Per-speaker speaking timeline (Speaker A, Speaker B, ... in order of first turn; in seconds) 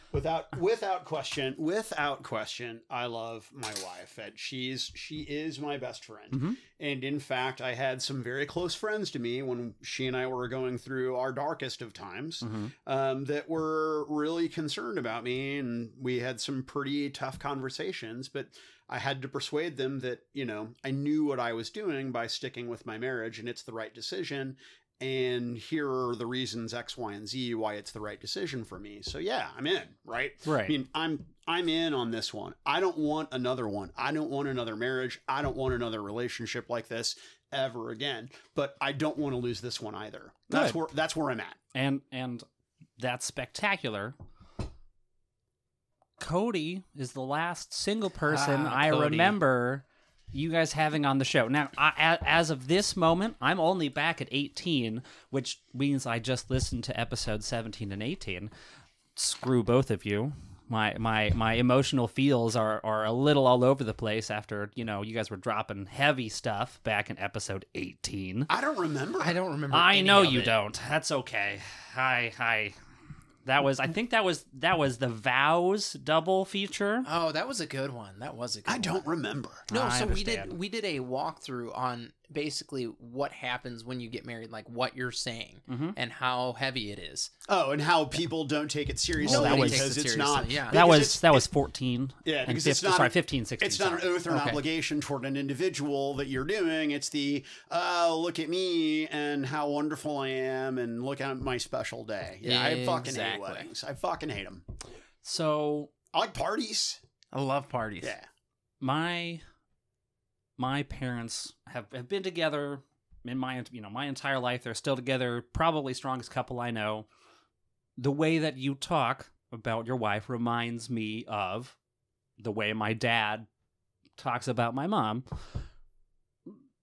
Speaker A: 0.1-41.6, 68.5-69.3, 78.7-79.7, 87.5-91.5, 92.2-104.6, 106.1-107.0, 108.0-108.3
Speaker B: 6.3-6.6, 12.4-12.7, 30.4-30.7, 40.5-40.8, 41.7-42.4, 43.0-44.1, 46.2-58.5, 59.1-68.5, 69.7-72.7, 73.4-77.1, 79.7-80.5, 85.7-86.0, 89.2-89.9, 90.7-94.2, 105.2-105.9, 108.8-109.4, 110.6-117.1, 118.0-121.7, 122.4-123.5, 124.2-125.2
Speaker C: 48.3-49.4, 69.2-70.5, 77.0-79.0, 79.7-87.3, 89.2-90.8, 94.3-94.6, 102.4-103.7, 107.3-108.1